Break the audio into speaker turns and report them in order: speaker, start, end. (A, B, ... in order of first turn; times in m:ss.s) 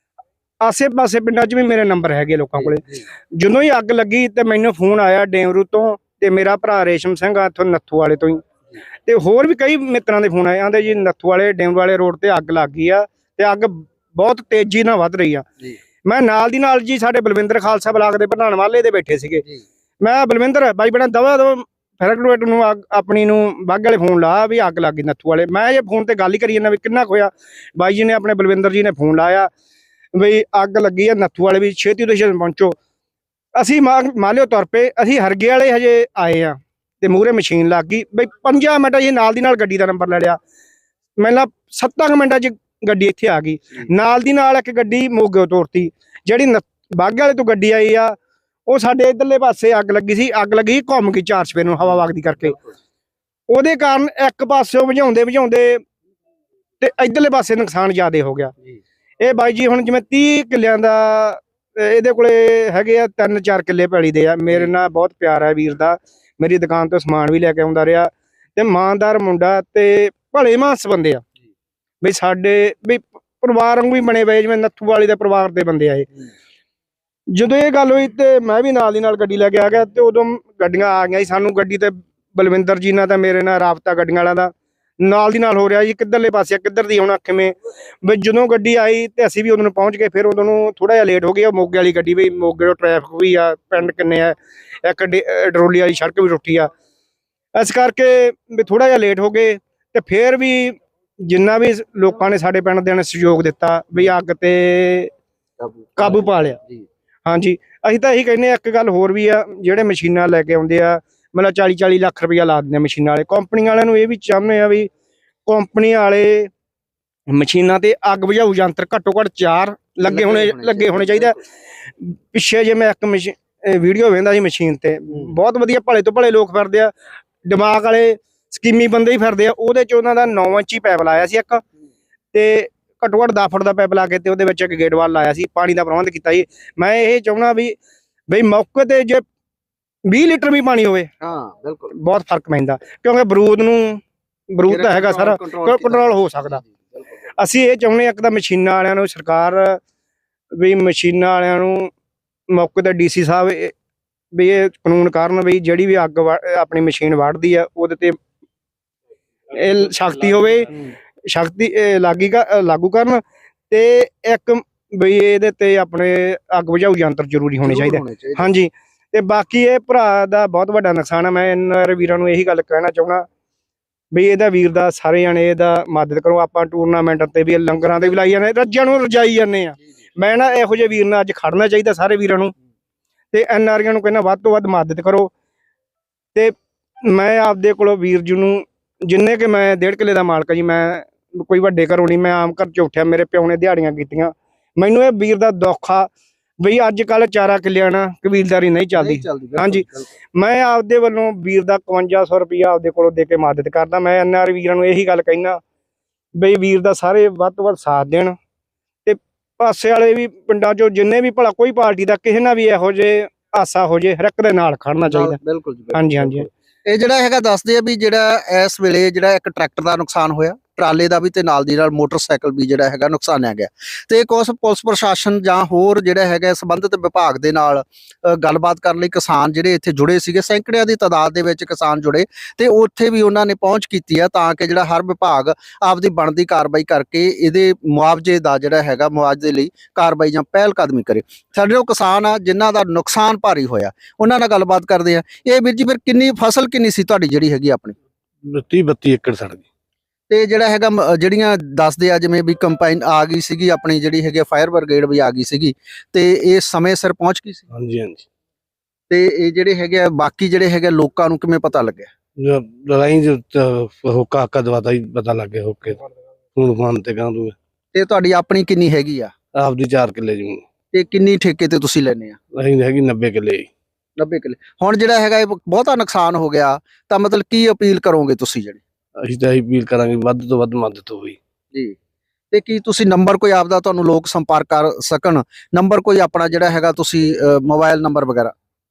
0:00.6-0:08.4 A
0:09.1-0:15.4 A
0:16.0-0:19.4 A
0:20.0-0:29.5 A
0:30.2-0:32.8 A
0:33.6-0:40.4 A
0:41.2-0:48.2 A
0:48.7-0:52.6 A
0:53.5-0:55.8 A
0:56.8-0:58.5 A
0:59.2-1:11.2 A
1:12.0-1:16.1 A
1:17.3-1:36.7 A
1:37.6-1:45.1 A
1:45.6-1:46.8 B
1:46.0-1:46.6 A
1:47.3-1:54.9 A
1:55.5-1:56.5 A
1:57.3-2:01.4 A
2:00.0-2:01.4 B
2:02.0-2:06.9 A
2:07.4-2:11.6 A
2:12.3-2:17.8 A
2:18.3-2:19.2 A
2:20.1-2:21.1 A
2:21.2-2:21.9 B
2:22.0-2:24.0 A
2:24.5-2:26.6 A
2:24.7-2:27.1 B
2:27.4-2:29.8 A
2:30.6-2:31.9 A
2:32.5-2:33.7 A
2:34.3-2:38.2 A
2:39.5-2:40.7 A
2:41.3-2:53.2 A
2:47.6-2:48.5 B
2:54.1-3:02.5 A
3:03.3-3:05.3 A
3:06.4-3:16.1 A
3:16.6-3:25.6 A
3:18.9-3:20.1 B
3:26.4-3:28.4 A
3:29.0-3:35.4 A
3:35.0-4:08.0 B
3:35.9-3:36.5 A
4:08.4-4:09.6 C
4:10.3-4:17.6 B
4:17.7-4:18.2 C
4:19.1-4:22.1 B
4:22.4-4:26.0 C
4:26.6-4:27.6 C
4:27.9-4:29.3 B
4:29.6-4:30.6 C
4:30.9-4:32.4 B
4:32.5-4:33.7 C
4:34.2-4:38.8 B
4:39.2-4:41.4 C
4:42.5-4:48.5 B